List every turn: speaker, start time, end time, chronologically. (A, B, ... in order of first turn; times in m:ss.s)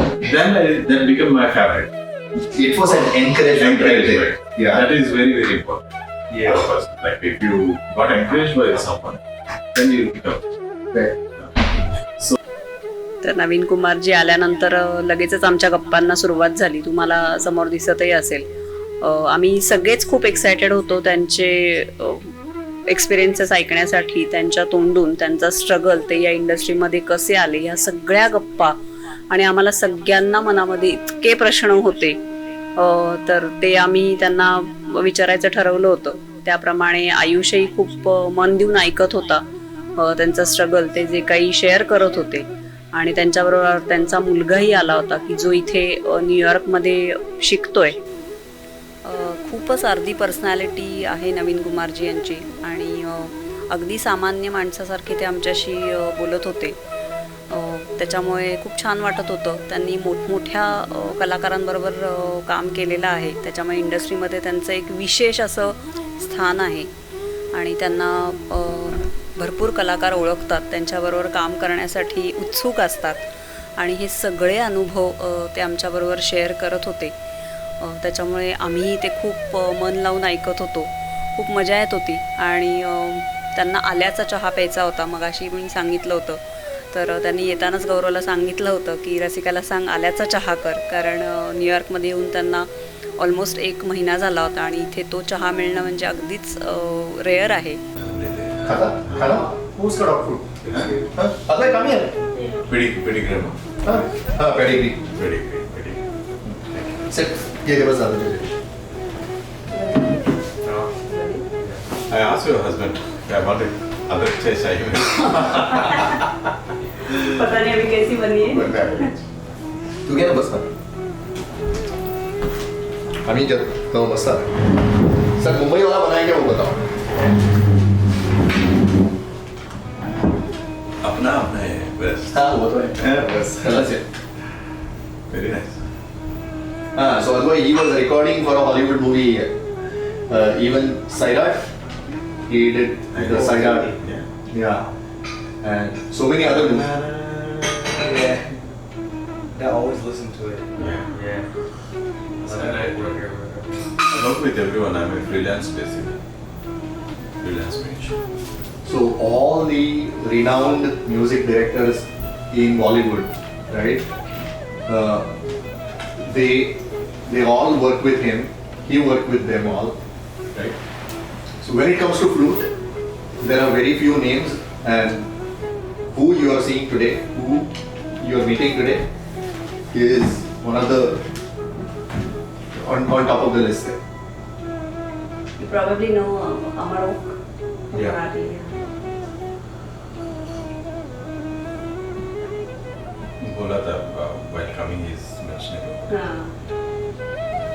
0:00.2-0:01.9 A
0:02.4-0:04.9 B
0:03.5-0:09.2 A
0:06.3-0:06.7 B
0:09.7-0:10.4 A
0:13.2-0:18.5 C
0:19.0-0:22.3 C
0:22.9-0:28.8 C
0:29.3-0:32.2 C
0:32.8-0:39.4 C
0:40.0-0:48.0 C
0:49.0-0:56.8 C
0:57.5-1:06.9 C
1:07.5-1:17.2 C
1:17.8-1:37.8 C
1:38.0-1:39.4 A
1:38.6-1:40.6 B
1:40.6-1:41.1 D
1:40.7-1:41.0 A
1:41.1-1:42.1 B
1:42.6-1:43.6 A
1:43.8-1:45.0 B
1:45.1-1:46.0 A
1:46.4-1:48.5 B
1:49.7-1:50.2 C
1:50.6-1:50.9 D
1:51.0-1:51.4 C
1:51.6-1:51.8 D
1:52.1-1:56.3 A
1:55.5-1:56.1 C
1:57.1-1:59.1 C
1:58.4-1:59.2 A
2:00.0-2:00.7 B
2:03.2-2:04.6 B
2:05.2-2:06.8 B
2:11.0-2:12.4 A
2:12.3-2:14.0 B
2:13.0-2:13.9 A
2:15.3-2:15.8 A
2:16.9-2:19.5 B
2:20.3-2:21.7 B
2:22.4-2:23.9 B
2:23.1-2:24.3 A
2:23.4-2:23.9 D
2:24.5-2:24.9 B
2:25.6-2:26.9 B
2:26.4-2:28.3 A
2:27.9-2:28.6 D
2:29.5-2:31.5 D
2:30.8-2:31.1 A
2:32.4-2:33.9 D
2:32.4-2:33.2 A
2:34.0-2:36.2 A
2:37.4-2:38.2 A
2:38.8-2:44.0 B
2:44.8-2:45.3 B
2:46.2-2:50.0 B
2:51.6-2:52.7 B
2:53.4-2:55.3 B
2:56.1-2:59.0 B
2:59.9-3:01.2 B
3:02.8-3:04.0 B
3:05.6-3:07.4 C
3:07.9-3:08.8 C
3:13.4-3:16.3 A
3:16.1-3:16.5 C